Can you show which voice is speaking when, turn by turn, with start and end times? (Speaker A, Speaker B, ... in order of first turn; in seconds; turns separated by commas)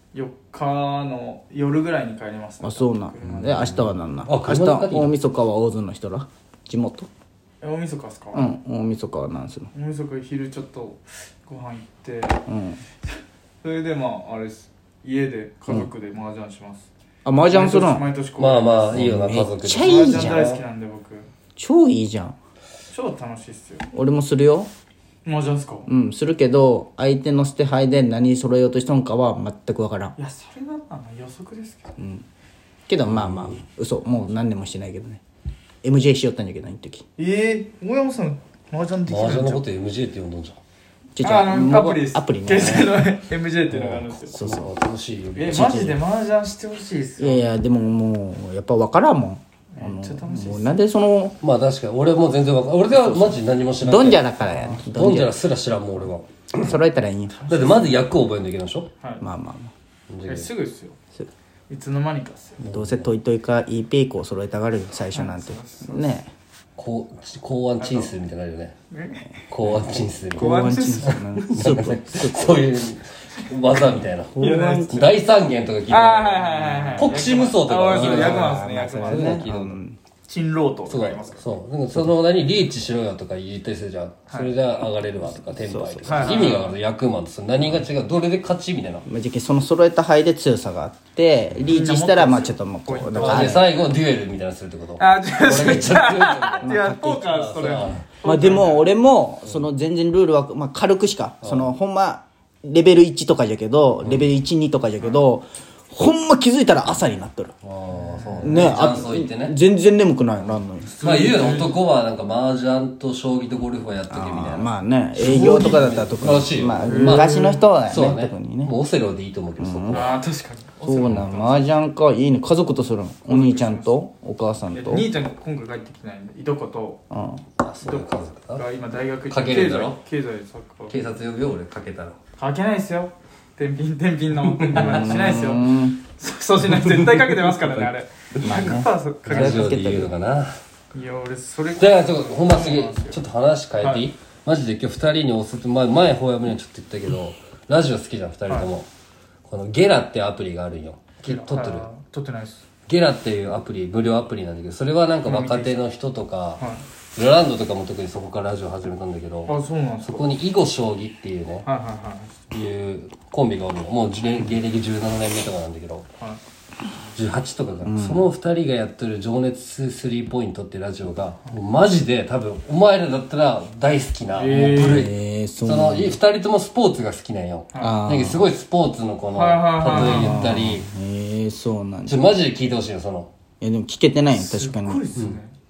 Speaker A: 0.1-3.7, Speaker B: 2.6-7.1, Speaker C: 3.4-5.1, Speaker A: 7.6-8.5, Speaker B: 8.3-9.7, Speaker A: 9.7-12.4, Speaker B: 12.5-12.8, Speaker A: 13.6-16.9, Speaker B: 17.2-18.1, Speaker A: 17.5-19.0, Speaker C: 18.4-20.6, Speaker B: 18.9-20.6, Speaker A: 19.8-21.3, Speaker B: 21.6-22.4, Speaker A: 22.9-23.9, Speaker B: 23.9-24.7, Speaker A: 25.2-25.9, Speaker B: 25.9-30.2, Speaker A: 30.2-31.9, Speaker B: 32.0-32.2, Speaker B: 32.9-35.2, Speaker C: 33.1-33.5, Speaker B: 35.8-37.0, Speaker A: 37.2-39.6, Speaker C: 39.1-40.6, Speaker B: 41.1-43.1, Speaker A: 41.2-44.3, Speaker C: 43.7-45.8, Speaker B: 44.3-44.7, Speaker A: 45.4-47.5, Speaker B: 45.5-46.0, Speaker B: 47.2-51.4, Speaker A: 49.7-50.8, Speaker C: 51.4-54.4, Speaker B: 52.9-55.4, Speaker A: 54.5-54.8, Speaker C: 54.9-56.7, Speaker B: 56.6-57.4, Speaker A: 57.4-58.0, Speaker C: 57.5-58.9, Speaker B: 59.2-59.7, Speaker C: 60.1-60.5, Speaker A: 60.3-61.0, Speaker A: 61.7-62.6, Speaker B: 62.6-66.3, Speaker C: 62.7-63.1, Speaker A: 65.1-66.2, Speaker C: 66.8-68.7, Speaker A: 67.8-68.2, Speaker A: 68.9-69.3, Speaker C: 69.5-79.8, Speaker B: 69.7-72.7, Speaker A: 70.3-71.2, Speaker B: 73.7-75.1, Speaker A: 74.4-75.1, Speaker A: 75.9-79.4, Speaker B: 76.7-77.2, Speaker B: 77.9-80.0, Speaker A: 80.3-81.5, Speaker C: 80.9-89.1, Speaker B: 85.4-86.7, Speaker A: 86.0-86.7, Speaker B: 89.1-93.7, Speaker A: 91.7-93.7, Speaker C: 93.2-96.8, Speaker A: 95.0-98.9, Speaker B: 96.6-97.6, Speaker C: 97.3-98.1, Speaker B: 98.2-107.5, Speaker C: 101.4-101.7, Speaker C: 107.6-109.5, Speaker A: 107.9-108.5, Speaker B: 108.4-111.3, Speaker A: 111.0-111.8, Speaker C: 111.0-120.2, Speaker B: 114.1-118.8, Speaker A: 115.3-115.8, Speaker A: 116.8-117.7, Speaker B: 119.6-120.2, Speaker A: 119.9-121.7, Speaker B: 120.8-125.1, Speaker A: 123.3-124.0, Speaker A: 124.7-127.0, Speaker B: 127.1-127.4, Speaker C: 127.6-128.7, Speaker A: 127.8-131.0, Speaker C: 129.3-130.0, Speaker C: 130.9-132.2, Speaker A: 132.4-140.0, Speaker C: 134.6-135.2, Speaker B: 134.7-136.0, Speaker B: 138.4-140.1, Speaker C: 139.3-140.6, Speaker A: 140.9-143.2, Speaker C: 141.8-148.9, Speaker A: 143.8-144.1, Speaker C: 149.4-151.9, Speaker A: 151.2-152.6, Speaker C: 152.9-161.7, Speaker A: 155.2-155.8, Speaker A: 159.5-160.3, Speaker A: 161.7-162.3, Speaker C: 162.5-166.1, Speaker C: 167.2-180.9, Speaker B: 167.8-168.3, Speaker A: 174.3-175.1, Speaker B: 174.8-176.2, Speaker A: 177.7-178.0, Speaker B: 177.8-178.4, Speaker A: 179.3-180.5, Speaker B: 179.8-182.2, Speaker C: 182.1-183.3, Speaker B: 183.6-185.0, Speaker A: 184.3-185.5